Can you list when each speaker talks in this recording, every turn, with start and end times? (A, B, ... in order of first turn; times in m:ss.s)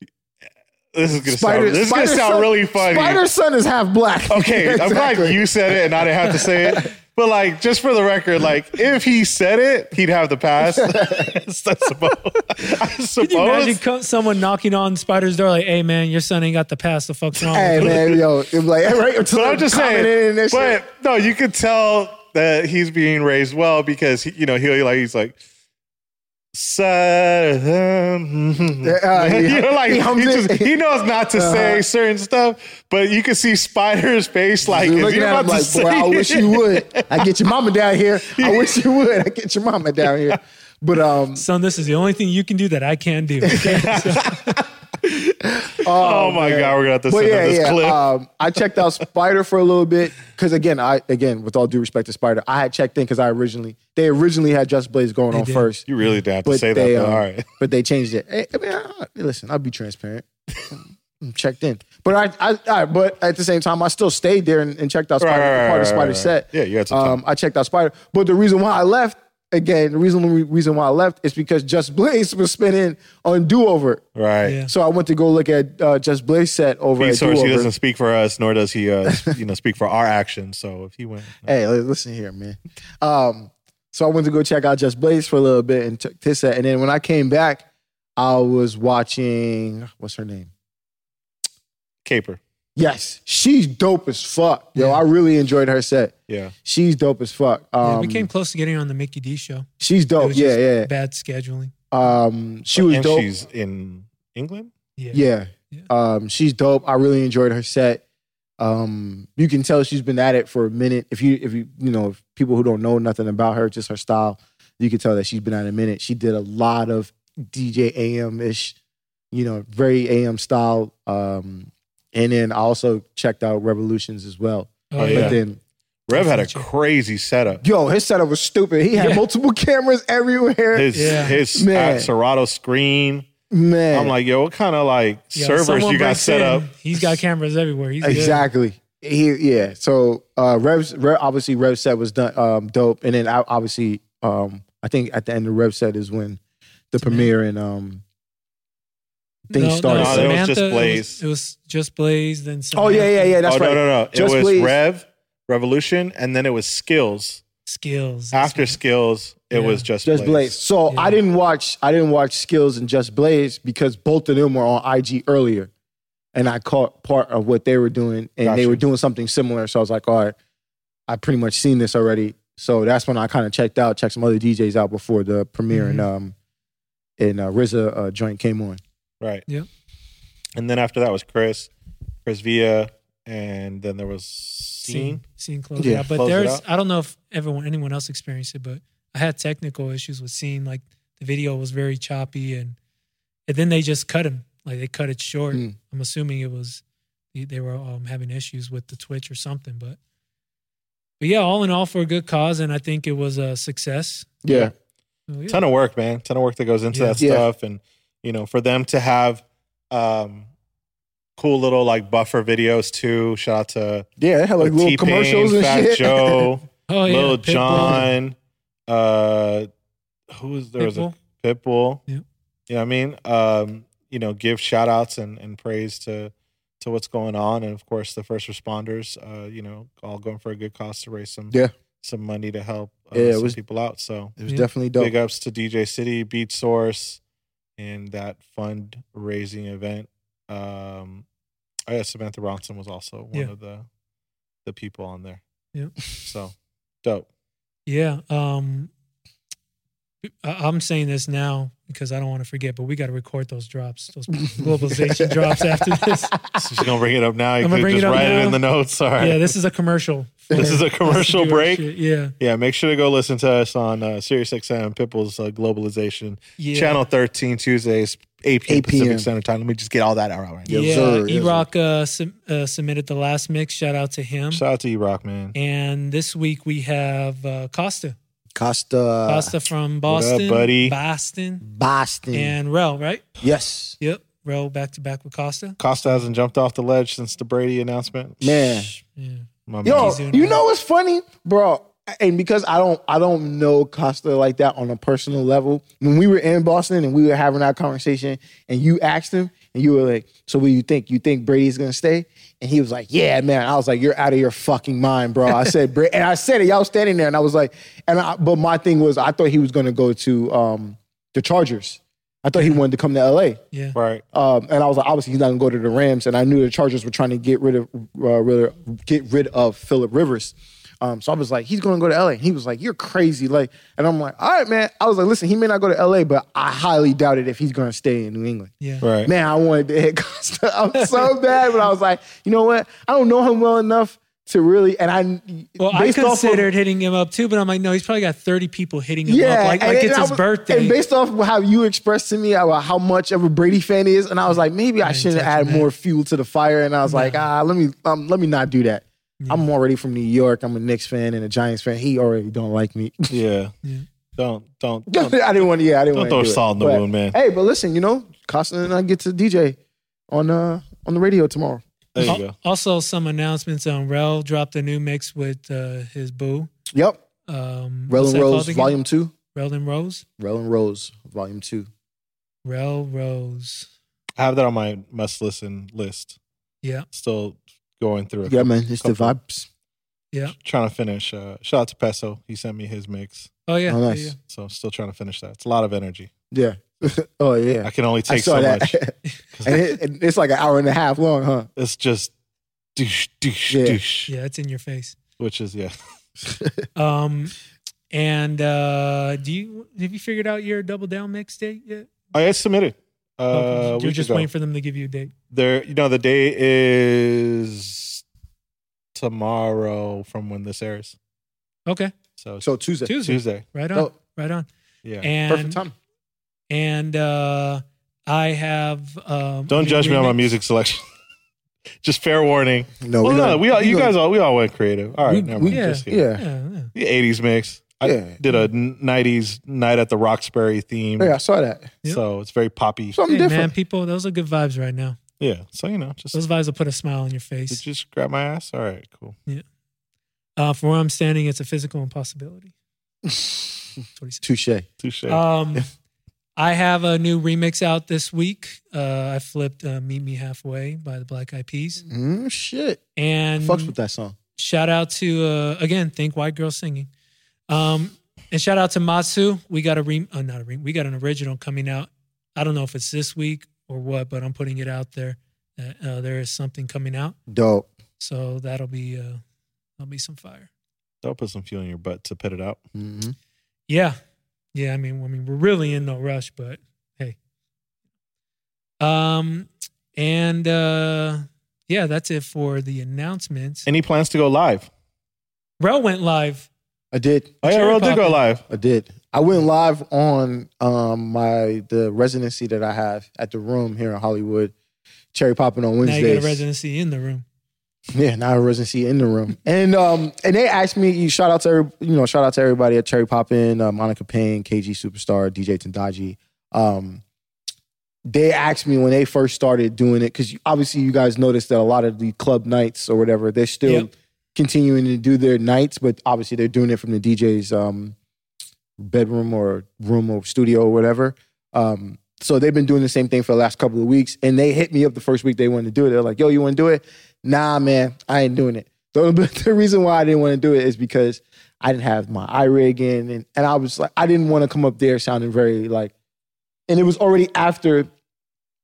0:00.9-0:03.2 A
0:01.2-0:06.9 B
0:04.3-0:13.8 A
0:10.6-0:11.4 B
0:13.2-0:18.0 C
0:17.5-0:20.8 B
0:17.8-0:18.2 A
0:19.3-0:25.4 A
0:26.5-0:37.3 A
0:28.8-0:30.7 B
0:31.3-0:31.8 B
0:34.6-0:41.4 B
0:38.2-0:38.8 A
0:41.3-0:44.6 C
0:43.5-0:43.9 B
0:43.6-0:48.0 A
0:45.7-0:55.9 B
0:55.3-0:56.1 C
0:55.9-0:57.5 A
0:56.4-1:14.0 B
1:05.2-1:07.2 A
1:14.1-1:14.6 A
1:14.4-1:14.7 C
1:14.6-1:17.7 B
1:17.0-1:21.5 A
1:19.0-1:19.3 B
1:21.4-1:27.6 B
1:28.2-1:30.5 B
1:32.0-1:32.4 A
1:32.8-1:38.3 B
1:34.7-1:35.0 C
1:36.3-1:36.5 A
1:37.8-1:39.7 C
1:39.8-1:40.9 B
1:40.2-1:41.7 C
1:41.9-1:43.3 B
1:42.8-1:44.7 A
1:45.0-1:45.9 C
1:45.1-1:48.0 B
1:48.6-1:58.8 B
1:59.3-2:05.6 B
2:04.9-2:05.4 C
2:05.0-2:05.4 A
2:06.1-2:07.6 A
2:06.1-2:06.7 C
2:07.6-2:12.1 B
2:08.9-2:09.2 C
2:10.7-2:13.3 A
2:10.9-2:11.4 C
2:13.5-2:14.1 B
2:13.9-2:17.1 A
2:15.3-2:18.4 C
2:18.0-2:26.4 B
2:26.9-2:28.0 B
2:27.0-2:27.3 C
2:29.5-2:30.4 B
2:29.5-2:33.4 C
2:29.9-2:31.2 A
2:32.7-2:34.8 B
2:33.4-2:37.4 A
2:37.6-2:38.8 C
2:38.3-2:40.5 A
2:39.5-2:39.9 C
2:40.0-2:45.7 B
2:40.9-2:41.2 C
2:46.3-2:50.4 B
2:48.4-2:48.8 A
2:51.1-2:56.3 B
2:55.7-2:56.1 C
2:57.2-2:58.8 B
3:00.6-3:01.7 A
3:02.2-3:05.2 A
3:04.8-3:12.8 C
3:05.8-3:06.1 B
3:06.1-3:06.6 A
3:13.5-3:16.8 C
3:17.3-3:20.0 C
3:21.2-3:24.4 C
3:24.4-3:24.7 B
3:25.3-3:25.6 C
3:25.5-3:30.5 A
3:26.9-3:27.2 C
3:27.2-3:27.5 B
3:31.4-3:34.1 A
3:34.2-3:36.5 B
3:34.6-3:38.4 A
3:36.9-3:38.1 C
3:38.9-3:39.7 A
3:40.3-3:42.0 A
3:40.8-3:41.1 C
3:42.7-3:54.4 A
3:53.1-3:53.6 B
3:54.4-3:55.1 B
3:55.0-3:57.2 A
3:57.8-4:01.2 A
4:01.9-4:03.8 A
4:04.6-4:05.4 A
4:06.1-4:07.2 A
4:07.8-4:08.9 C
4:10.2-4:16.4 C
4:14.5-4:16.6 B
4:16.6-4:19.5 A
4:17.6-4:18.6 C
4:19.2-4:22.3 C
4:20.5-4:21.8 A
4:22.4-4:31.2 A
4:26.6-4:27.0 C
4:28.7-4:29.3 B
4:30.6-4:31.7 B
4:30.7-4:34.6 C
4:34.5-4:35.5 A
4:35.5-4:38.2 C
4:38.5-4:39.6 B
4:39.3-4:41.6 C
4:40.1-4:41.0 A
4:41.6-4:42.6 B
4:42.3-4:43.2 C
4:43.4-4:44.0 B
4:44.0-4:46.2 C
4:45.8-4:48.8 A
4:48.4-4:48.9 B
4:48.9-4:50.6 C
4:49.7-4:50.2 A
4:49.8-5:13.6 B
5:13.7-5:14.0 C
5:13.9-5:14.2 A
5:14.3-5:28.7 B
5:29.0-5:29.3 A
5:29.2-5:36.7 B
5:31.0-5:31.3 C
5:35.8-5:41.0 C
5:39.3-5:53.4 B
5:45.0-5:45.9 C
5:47.0-5:47.5 C
5:53.3-5:53.7 A
5:54.4-5:55.5 A
5:55.1-5:59.8 B
5:56.1-5:57.4 A
6:00.3-6:02.4 B
6:02.1-6:02.5 A
6:02.2-6:06.7 C
6:06.9-6:07.2 B
6:07.5-6:09.0 C
6:08.1-6:09.3 B
6:09.5-6:10.2 C
6:10.4-6:11.9 B
6:12.6-6:13.9 C
6:14.4-6:16.4 A
6:17.1-6:19.3 A
6:18.4-6:19.7 B
6:20.5-6:23.5 A
6:23.7-6:24.4 C
6:23.9-6:24.4 B
6:24.4-6:26.3 A
6:26.5-6:31.7 B
6:27.8-6:29.0 A
6:29.5-6:29.8 A
6:31.8-6:32.3 A
6:33.0-6:34.3 A
6:33.7-6:34.0 B
6:34.3-6:35.2 C
6:35.4-6:35.9 A
6:37.0-6:37.5 C
6:38.1-6:42.1 C
6:42.3-6:44.5 A
6:43.5-6:45.3 C
6:45.5-6:48.2 A
6:49.1-6:51.1 A
6:51.9-6:52.1 C
6:52.4-6:52.7 A
6:52.6-6:53.2 B
6:53.0-6:54.7 C
6:53.2-6:53.6 A
6:55.0-6:55.3 A
6:55.2-6:55.8 C
6:55.5-6:55.9 B
6:56.7-7:00.5 C
6:59.7-7:01.0 A
7:02.0-7:06.2 A
7:03.0-7:04.1 B
7:05.2-7:06.4 B
7:05.7-7:06.9 C
7:06.9-7:11.4 A
7:08.0-7:08.4 B
7:11.2-7:12.0 B
7:12.0-7:13.2 A
7:13.1-7:13.7 B
7:13.3-7:15.2 C
7:15.4-7:16.4 A
7:16.3-7:17.8 C
7:17.7-7:19.4 A
7:20.6-7:22.7 C
7:23.3-7:23.6 B
7:24.2-7:24.4 C
7:24.4-7:24.8 B
7:25.0-7:25.4 A
7:25.3-7:25.9 C
7:26.6-7:32.0 C
7:32.0-7:33.0 B
7:33.2-7:33.9 C
7:33.6-7:34.4 B
7:34.6-7:37.1 C
7:37.7-7:47.4 C
7:47.5-7:47.9 B
7:48.2-7:49.4 C
7:50.0-7:50.7 C
7:51.2-7:52.8 A
7:52.9-7:53.3 B
7:53.9-7:54.2 C
7:54.7-7:57.4 C
7:59.0-8:03.9 C
8:03.8-8:04.9 A
8:05.8-8:06.7 C
8:07.1-8:07.6 B
8:07.6-8:08.6 A
8:07.6-8:08.4 C
8:08.7-8:14.7 B
8:15.3-8:16.6 B
8:16.0-8:17.4 C
8:18.1-8:27.2 B
8:28.2-8:38.2 B
8:39.0-8:56.1 B
8:56.9-8:58.1 B